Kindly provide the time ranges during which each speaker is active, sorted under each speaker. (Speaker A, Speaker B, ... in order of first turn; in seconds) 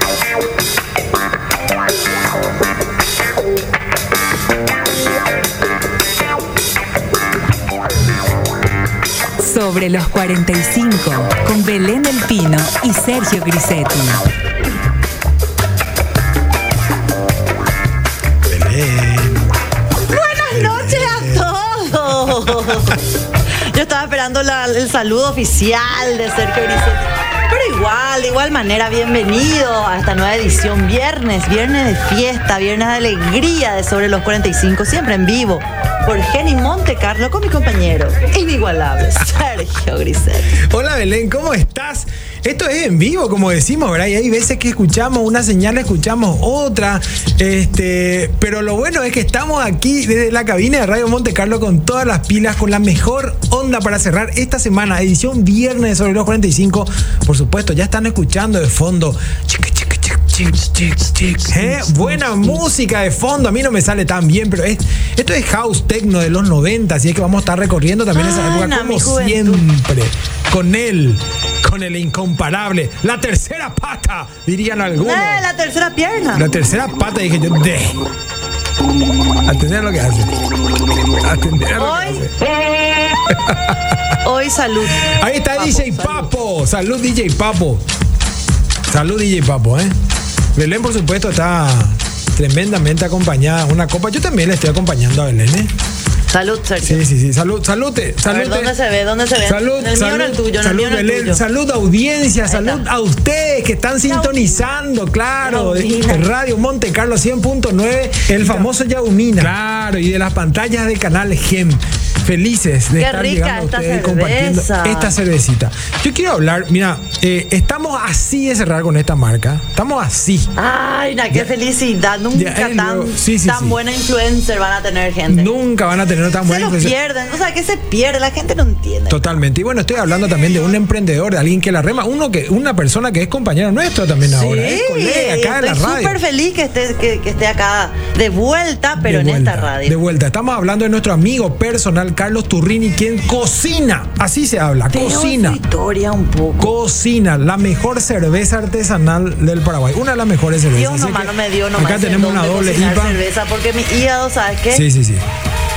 Speaker A: 9.4-14.2
Speaker B: 18.5-19.4, 20.5-21.6, 22.1-22.9, 40.6-75.5, 76.3-78.1, 79.5-80.3, 81.2-82.4, 83.3-84.0, 85.0-87.9, 88.9-90.0, 90.5-95.7, 96.8-98.8, 99.4-120.5, 122.3-123.8, 125.3-126.9, 129.1-136.2, 139.0-145.6, 146.6-153.2, 154.7-155.2
Speaker C: 20.1-23.0, 23.7-40.6, 61.4-62.5, 68.1-69.6, 75.0-76.5, 81.8-82.2, 84.2-86.3, 96.3-97.1, 98.2-101.4, 102.5-102.8, 104.0-104.7, 105.4-106.3, 108.4-108.7, 113.0-115.1, 120.6-125.6, 126.5-129.3, 134.3-140.0, 144.9-146.8, 150.7-154.9